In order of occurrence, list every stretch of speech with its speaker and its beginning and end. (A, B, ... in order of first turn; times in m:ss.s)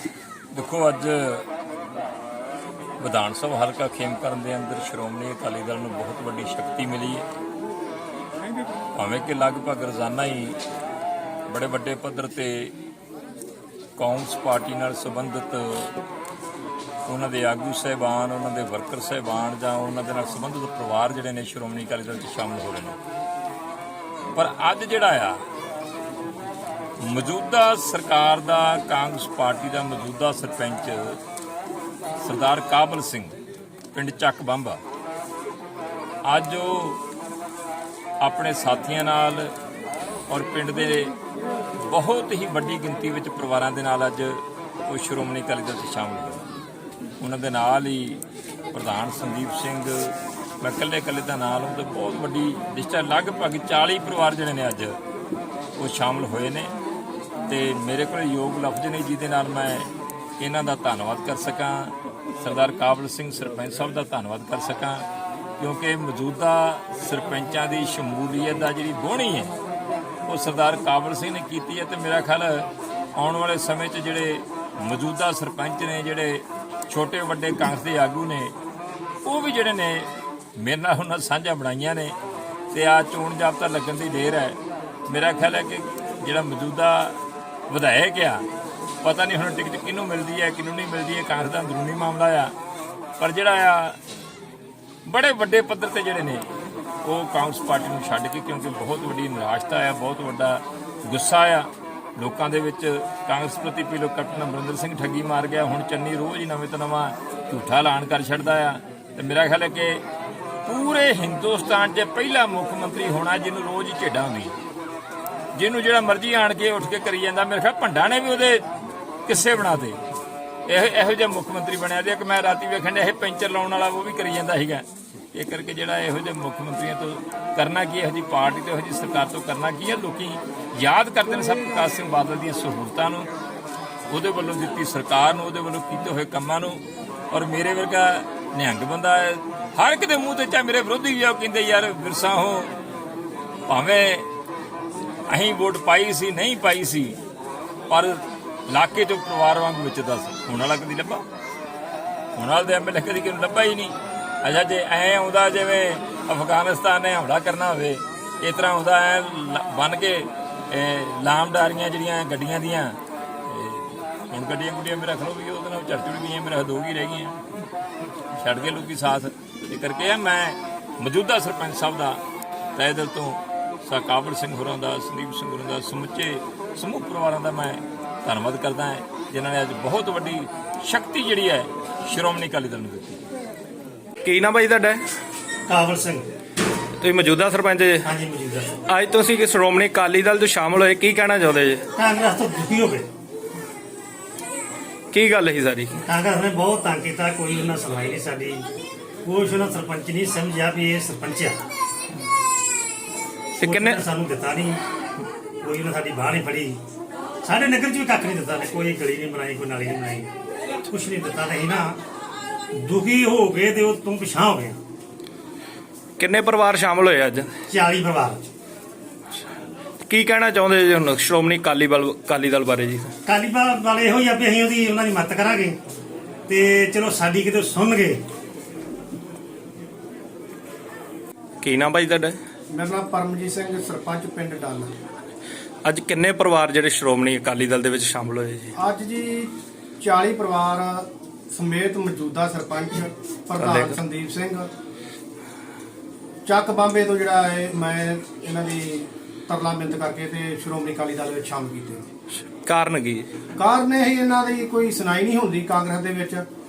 0:00.5-0:01.5 A
0:03.0-0:07.2 A
0:08.9-0:10.6 A
0:11.5-0:12.7 A
0:14.0-0:15.9 A
0:17.0-0:23.0 A
0:24.3-0:25.4 A
0:27.0-0:31.2 A
0:32.2-0:33.4 A
0:33.9-0:34.8 A
0:36.2-0:37.0 A
0:38.2-0:39.5 A
0:40.3-0:41.1 A
0:41.8-0:46.5 A
0:47.2-0:48.2 A
0:48.7-0:55.0 A
0:55.8-0:56.7 A
0:57.5-0:59.9 A
1:00.4-1:05.1 A
1:05.6-1:09.5 A
1:10.2-1:18.5 A
1:19.2-1:22.2 A
1:22.7-1:27.2 A
1:27.7-1:28.4 A
1:29.0-1:32.5 A
1:33.2-1:34.0 A
1:35.0-1:36.4 A
1:37.0-1:50.0 A
1:50.6-1:54.6 A
1:55.5-1:58.6 A
1:59.2-2:00.0 A
2:00.7-2:13.3 A
2:14.1-2:22.7 A
2:23.7-2:24.2 A
2:25.3-2:27.2 A
2:27.9-2:31.2 A
2:32.3-2:47.4 A
2:48.3-2:52.2 A
2:52.8-3:03.2 A
3:04.2-3:05.0 B
3:05.7-3:06.3 C
3:07.0-3:08.0 B
3:08.0-3:08.8 C
3:08.9-3:11.8 B
3:12.0-3:13.1 C
3:15.1-3:16.0 B
3:16.0-3:18.6 C
3:19.2-3:21.6 C
3:23.6-3:24.0 B
3:23.6-3:24.8 C
3:25.6-3:26.8 C
3:27.4-3:30.3 C
3:30.8-3:32.0 C
3:32.7-3:34.8 C
3:36.2-3:37.5 B
3:37.7-3:38.5 C
3:40.1-3:43.1 B
3:43.2-3:45.8 C
3:46.5-3:48.2 C
3:51.6-3:52.4 B
3:52.7-3:54.9 D
3:55.8-3:58.7 B
3:58.7-4:04.7 D
4:03.6-4:04.0 B
4:06.4-4:12.1 D
4:12.6-4:13.3 B
4:13.6-4:16.4 D